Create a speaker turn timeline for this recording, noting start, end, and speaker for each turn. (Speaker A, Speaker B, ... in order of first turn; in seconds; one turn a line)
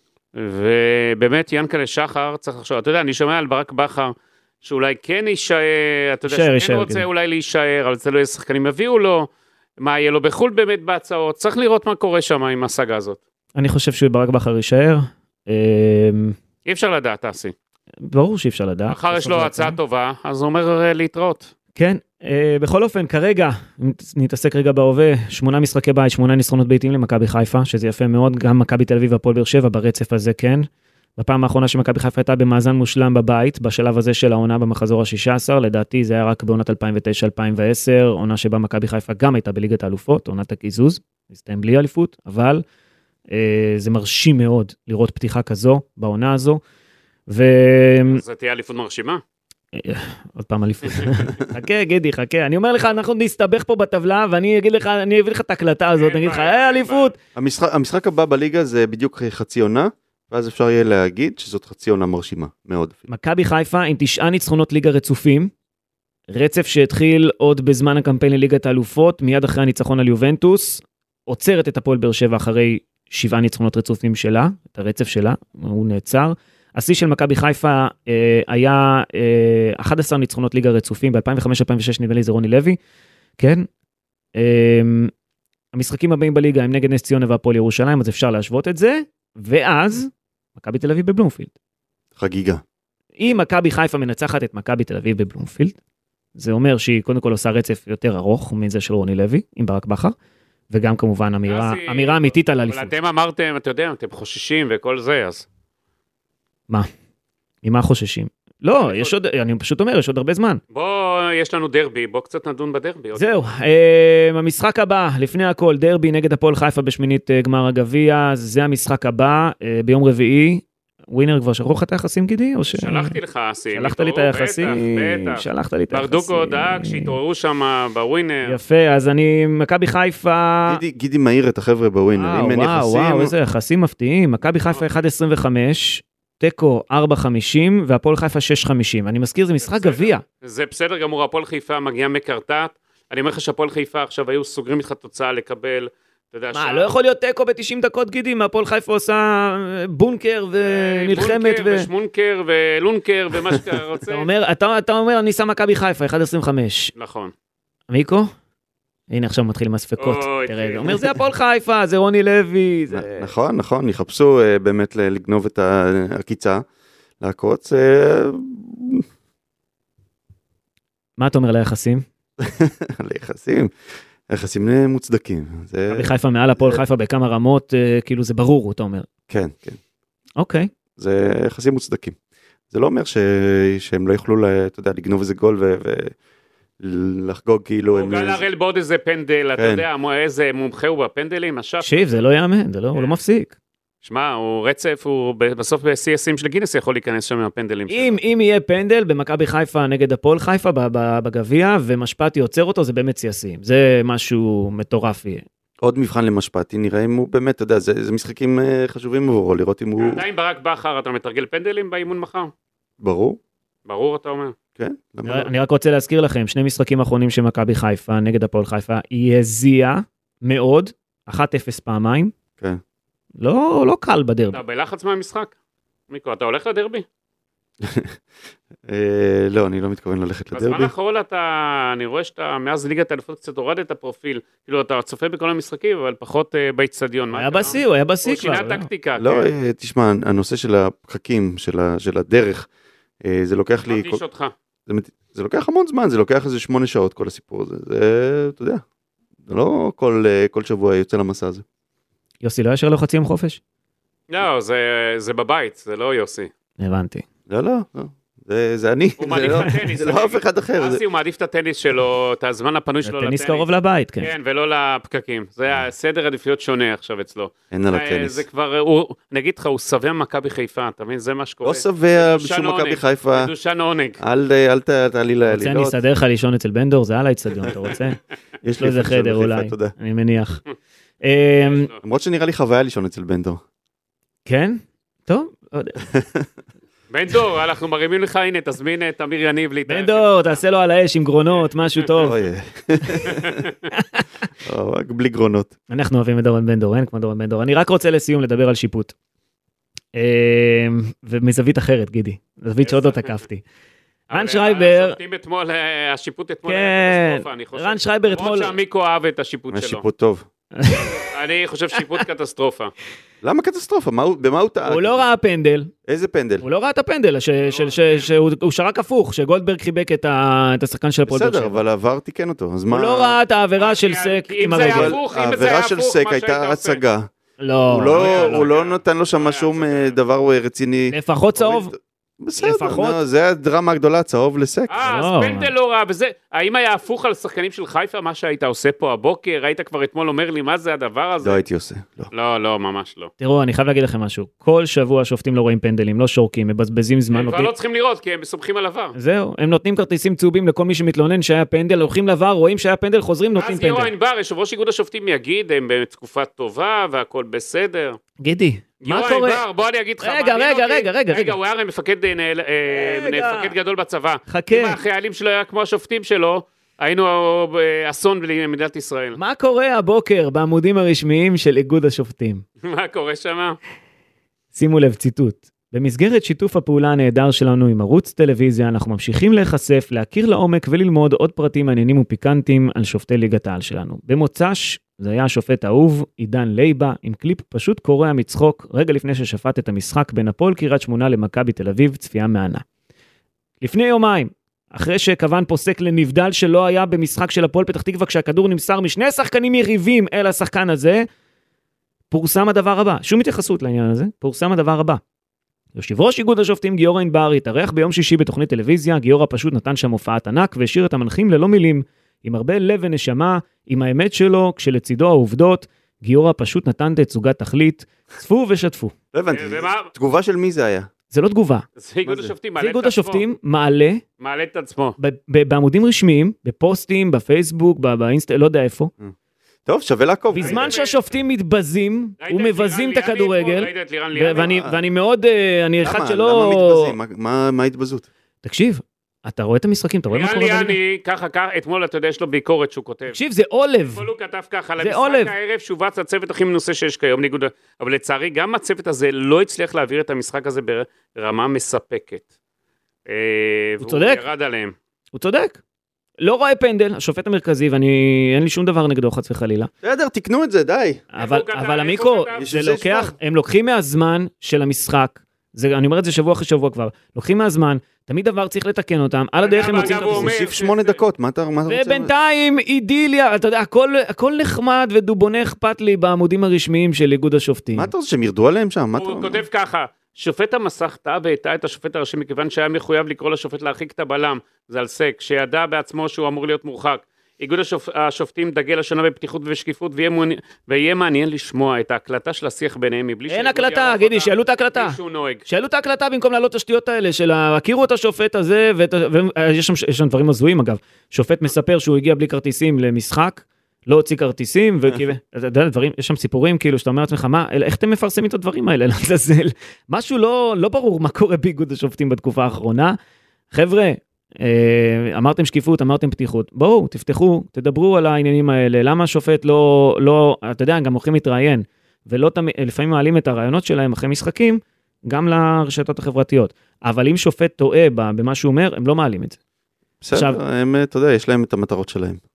Speaker A: 0.3-13.2
Speaker B: 6.3-7.0
Speaker B: 13.5-16.4
Speaker A: 16.6-17.5
Speaker B: 18.0-19.8
Speaker A: 18.9-21.5
Speaker B: 21.8-42.6
Speaker B: 43.3-46.6
Speaker B: 47.3-48.2
Speaker A: 48.1-49.2
Speaker B: 49.7-57.1
Speaker A: 56.0-57.1
Speaker C: 57.3-63.0
Speaker B: 63.1-65.5
Speaker B: 66.3-82.8
Speaker B: 83.4-83.7
Speaker B: 84.3-85.1
Speaker B: 85.7-91.5
Speaker C: 92.2-92.6
Speaker B: 93.2-95.8
Speaker B: 96.3-100.1
Speaker B: 100.7-102.9
Speaker A: 101.5-105.5
Speaker B: 107.6-110.6
Speaker A: 108.8-109.1
Speaker A: 110.7-113.4
Speaker B: 113.2-123.2
Speaker A: 122.7-128.6
Speaker B: 123.7-127.1
Speaker B: 128.4-130.8
Speaker C: 130.7-133.3
Speaker B: 132.2-140.2
Speaker A: 139.6-146.9
Speaker B: 146.5-151.9
Speaker A: 150.6-154.3
Speaker B: 154.1-156.9
Speaker A: 156.9-157.3
Speaker B: 157.9-158.3
Speaker B: 159.1-163.1
Speaker A: 160.0-161.1
Speaker C: 162.9-166.6
Speaker C: 167.2-169.0
Speaker B: 171.2-172.0
Speaker C: 172.4-173.7
Speaker C: 174.3-176.8
Speaker B: 175.9-179.1
Speaker C: 179.3-179.8
Speaker B: 180.4-180.7
Speaker C: 181.0-182.2
Speaker C: 182.7-186.1
Speaker C: 186.8-188.4
Speaker A: 187.9-192.0
Speaker C: 189.6-189.8
Speaker B: 191.8-193.5
Speaker A: 194.0-198.2
Speaker B: 197.9-205.4
Speaker C: 205.8-210.2
Speaker A: 210.0-212.5
Speaker C: 213.0-213.4
Speaker A: 213.8-214.5
Speaker C: 214.8-215.5
Speaker B: 215.2-222.3
Speaker B: 223.4-224.6
Speaker A: 224.5-225.5
Speaker A: 226.1-227.0
Speaker C: 227.8-228.2
Speaker C: 228.8-230.9
Speaker A: 230.5-239.5
Speaker B: 237.3-238.9
Speaker C: 239.2-242.7
Speaker C: 243.2-244.2
Speaker A: 243.9-244.5
Speaker C: 244.9-248.8
Speaker C: 249.4-251.6
Speaker B: 252.4-253.6
Speaker A: 254.3-256.5
Speaker B: 256.8-257.2
Speaker C: 257.5-261.0
Speaker A: 259.2-263.7
Speaker B: 263.0-264.3
Speaker A: 264.2-274.2
Speaker C: 267.7-268.4
Speaker C: 271.6-273.5
Speaker C: 274.2-276.0
Speaker B: 275.5-278.2
Speaker C: 278.6-279.9
Speaker B: 278.7-280.6
Speaker B: 281.2-281.9
Speaker A: 281.6-282.0
Speaker C: 282.0-283.6
Speaker B: 284.4-286.0
Speaker C: 286.0-286.5
Speaker A: 287.1-290.6
Speaker B: 289.9-292.4
Speaker C: 292.2-293.7
Speaker A: 293.2-293.7
Speaker B: 293.9-294.2
Speaker C: 294.6-295.7
Speaker B: 295.9-299.1
Speaker B: 300.1-303.6
Speaker A: 302.8-303.4
Speaker A: 304.3-310.0
Speaker B: 304.3-305.2
Speaker B: 306.6-308.7
Speaker C: 309.7-310.4
Speaker B: 310.8-311.2
Speaker A: 311.1-312.9
Speaker B: 312.0-312.2
Speaker C: 313.4-315.2
Speaker B: 314.8-315.9
Speaker C: 316.1-316.6
Speaker B: 316.6-321.8
Speaker A: 317.6-318.3
Speaker C: 321.3-323.4
Speaker B: 322.9-325.2
Speaker A: 323.8-327.0
Speaker C: 324.8-327.3
Speaker B: 327.6-328.6
Speaker C: 327.9-334.9
Speaker A: 328.1-330.1
Speaker B: 331.1-331.9
Speaker B: 332.6-333.2
Speaker A: 334.9-341.6
Speaker B: 335.0-335.7
Speaker C: 341.4-342.3
Speaker A: 342.3-343.3
Speaker B: 343.4-347.7
Speaker A: 347.3-349.1
Speaker B: 349.1-354.1
Speaker A: 353.6-358.2
Speaker B: 358.4-359.6
Speaker A: 359.0-369.4
Speaker B: 360.2-361.6
Speaker B: 362.9-363.7
Speaker B: 364.5-365.0
Speaker B: 369.4-372.6
Speaker A: 372.8-373.8
Speaker B: 374.7-392.8
Speaker B: 393.8-401.2
Speaker B: 402.3-405.2
Speaker B: 405.9-419.1
Speaker C: 419.3-421.1
Speaker A: 419.5-420.1
Speaker B: 421.3-421.8
Speaker A: 422.0-423.4
Speaker C: 422.2-422.5
Speaker B: 422.8-424.2
Speaker A: 424.4-425.2
Speaker B: 425.2-429.1
Speaker C: 429.2-430.9
Speaker B: 430.5-437.1
Speaker A: 430.6-431.2
Speaker A: 432.4-434.7
Speaker C: 434.6-434.9
Speaker C: 436.0-438.3
Speaker B: 438.6-441.0
Speaker A: 440.3-443.4
Speaker B: 443.3-444.2
Speaker A: 444.1-452.4
Speaker B: 445.0-445.5
Speaker A: 453.3-454.9
Speaker B: 454.0-454.4
Speaker B: 455.3-455.8
Speaker B: 456.4-459.9
Speaker C: 460.0-461.2
Speaker B: 461.3-470.5
Speaker A: 461.4-462.6
Speaker C: 462.6-463.3
Speaker A: 469.6-471.2
Speaker C: 469.9-472.3
Speaker B: 471.9-478.1
Speaker C: 477.9-479.6
Speaker A: 479.2-495.6
Speaker B: 493.5-513.1
Speaker B: 513.7-529.6
Speaker C: 530.2-532.4
Speaker B: 530.3-530.6